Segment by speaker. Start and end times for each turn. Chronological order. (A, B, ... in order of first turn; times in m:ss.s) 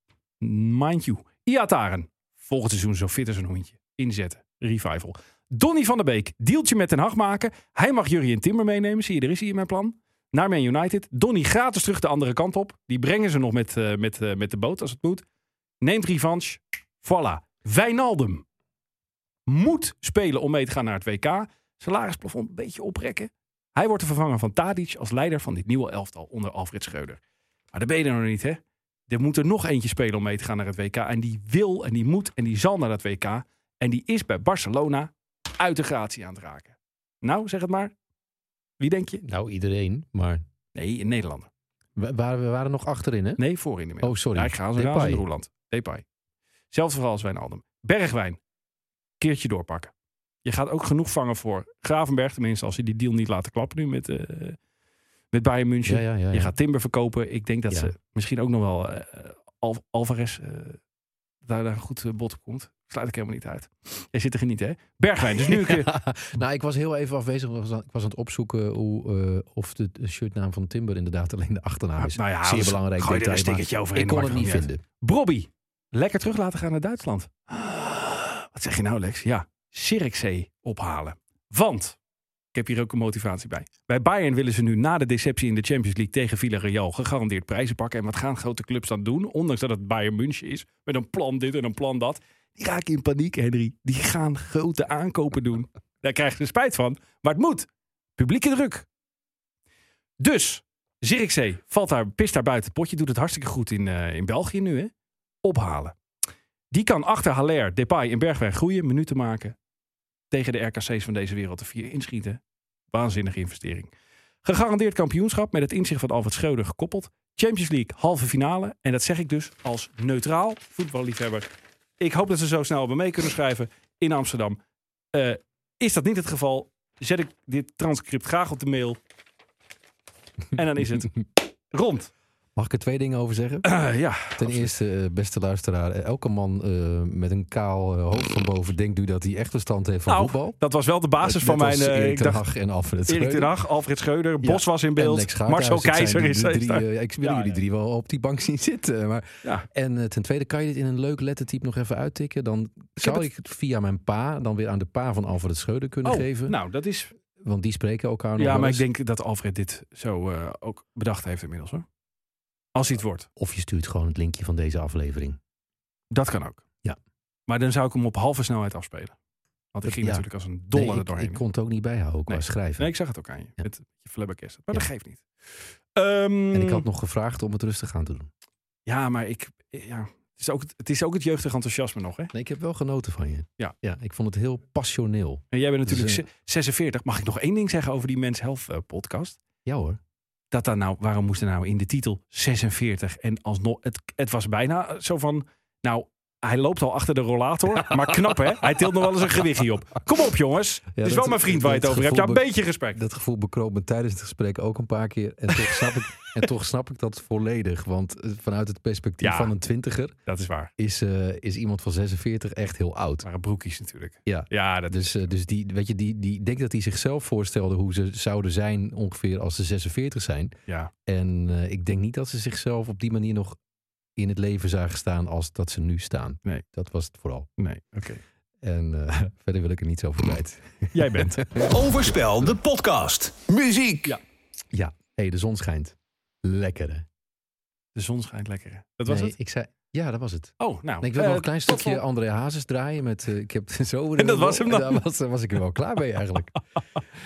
0:00.4-0:15.2 A
0:15.8-0:18.4 A
0:19.5-0:27.2 A
0:27.7-0:37.9 A
0:38.8-0:39.2 A
0:39.2-0:40.4 B
0:40.7-0:41.5 A
0:42.0-0:43.4 B
0:43.4-0:46.0 A
0:44.0-0:45.2 B
0:46.7-0:48.4 A
0:49.2-0:49.9 A
0:50.4-0:54.6 A
0:55.3-1:00.8 A
0:55.8-0:56.5 B
1:01.4-1:06.0 A
1:05.2-1:14.8 B
1:12.0-1:22.0 A
1:22.5-1:38.8 A
1:40.2-1:44.9 A
1:45.4-1:45.9 A
1:46.7-1:49.5 A
1:50.3-1:52.4 A
1:52.9-1:53.9 A
1:54.4-2:01.5 A
2:02.0-2:04.6 A
2:05.1-2:09.0 A
2:10.5-2:12.1 A
2:12.5-2:13.7 B
2:13.6-2:14.7 A
2:14.3-2:20.6 B
2:20.1-2:22.4 A
2:21.2-2:23.5 B
2:23.1-2:27.6 A
2:24.4-2:36.6 B
2:33.0-2:33.2 A
2:36.0-2:37.1 A
2:37.4-2:38.8 B
2:38.4-2:41.8 A
2:42.7-2:43.3 A
2:43.4-2:45.4 B
2:46.1-2:46.6 A
2:47.5-2:49.2 A
2:49.7-2:51.4 A
2:49.8-2:52.9 B
2:52.3-2:56.8 A
2:56.5-2:58.3 B
2:58.8-3:02.3 A
3:02.3-3:06.2 B
3:05.5-3:09.4 A
3:09.6-3:10.0 B
3:10.5-3:23.0 A
3:20.9-3:30.1 B
3:29.2-3:29.5 A
3:30.2-3:30.7 A
3:30.8-3:33.3 B
3:33.2-3:35.3 A
3:34.2-3:40.5 B
3:41.0-3:43.6 B
3:44.2-3:47.5 B
3:47.6-3:48.2 A
3:48.6-3:52.5 B
3:50.9-3:51.4 A
3:51.6-3:54.1 C
3:54.7-3:57.0 B
3:57.9-3:59.3 A
3:59.0-4:06.6 B
4:00.6-4:02.0 A
4:04.2-4:05.0 A